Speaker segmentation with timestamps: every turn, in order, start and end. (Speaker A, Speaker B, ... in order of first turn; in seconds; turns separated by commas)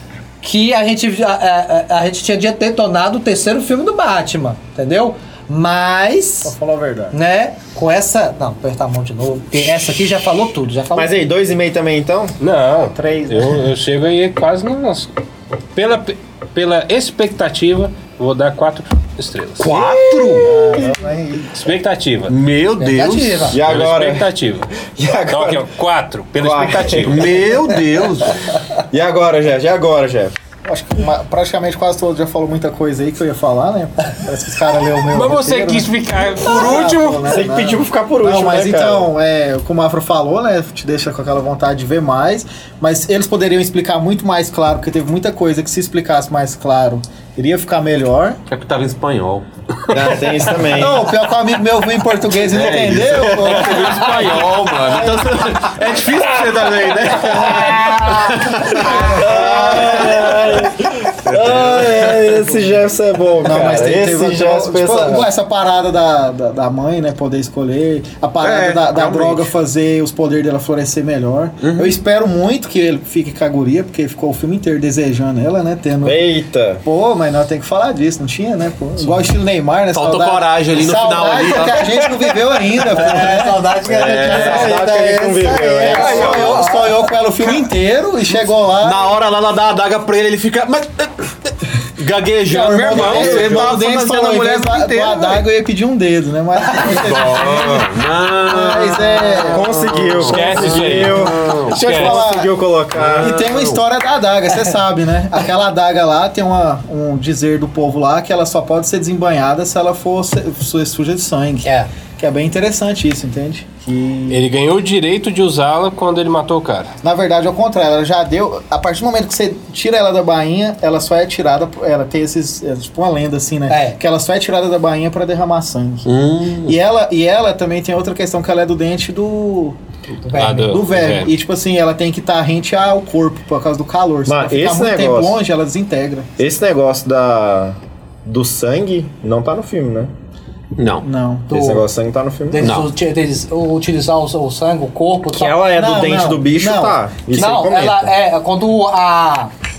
Speaker A: 0.4-6.5, Speaker B: 6.4-7.1, Speaker A: 7.1-11.1, Speaker C: 10.9-12.3, Speaker D: 12.4-15.1, Speaker C: 12.9-13.6, Speaker D: 15.7-19.7, Speaker E: 19.6-20.8, Speaker C: 19.8-20.8, Speaker B: 20.4-21.5, Speaker D: 21.5-22.3, Speaker E: 22.3-23.5, Speaker A: 22.8-23.6, Speaker C: 23.5-24.3, Speaker D: 23.6-24.7, Speaker C: 24.8-25.7, Speaker D: 25.3-27.4, Speaker C: 26.4-27.4, Speaker E: 26.9-28.4, Speaker C: 28.9-30.3, Speaker B: 30.6-48.4, Speaker D: 35.1-37.4, Speaker C: 37.3-39.1, Speaker E: 48.5-49.5, Speaker C: 49.9-51.0, Speaker B: 50.7-54.0, Speaker E: 52.4-62.5, Speaker D: 53.5-54.5, Speaker B: 58.7-60.3, Speaker C: 58.9-65.3, Speaker B: 63.4-76.3, Speaker E: 68.4-69.5, Speaker E: 71.6-71.9, Speaker C: 76.0-76.8, Speaker B: 76.8-89.1, Speaker E: 79.9-82.9, Speaker A: 82.9-87.0, Speaker C: 83.9-86.7, Speaker E: 83.9-84.7, Speaker E: 85.9-86.6, Speaker E: 88.3-95.4, Speaker B: 92.5-99.6, Speaker C: 92.9-93.8, Speaker E: 96.7-101.7, Speaker C: 99.4-103.5, Speaker D: 100.2-102.2, Speaker B: 101.7-102.5, Speaker E: 102.9-103.8, Speaker B: 103.2-114.4, Speaker A: 111.6-111.9, Speaker D: 114.3-116.9, Speaker B: 117.0-126.0, Speaker A: 123.7-124.0, Speaker E: 126.0-126.8, Speaker B: 126.6-129.8, Speaker A: 130.2-130.8, Speaker D: 130.3-131.3, Speaker B: 130.6-136.3, Speaker C: 134.2-135.4, Speaker C: 136.4-140.1, Speaker E: 140.8-141.1, Speaker B: 141.0-141.5, Speaker A: 141.5-141.9, Speaker C: 141.5-142.7, Speaker A: 142.5-145.6, Speaker E: 142.6-142.9, Speaker C: 145.3-148.1, Speaker B: 145.7-147.0, Speaker A: 147.3-149.5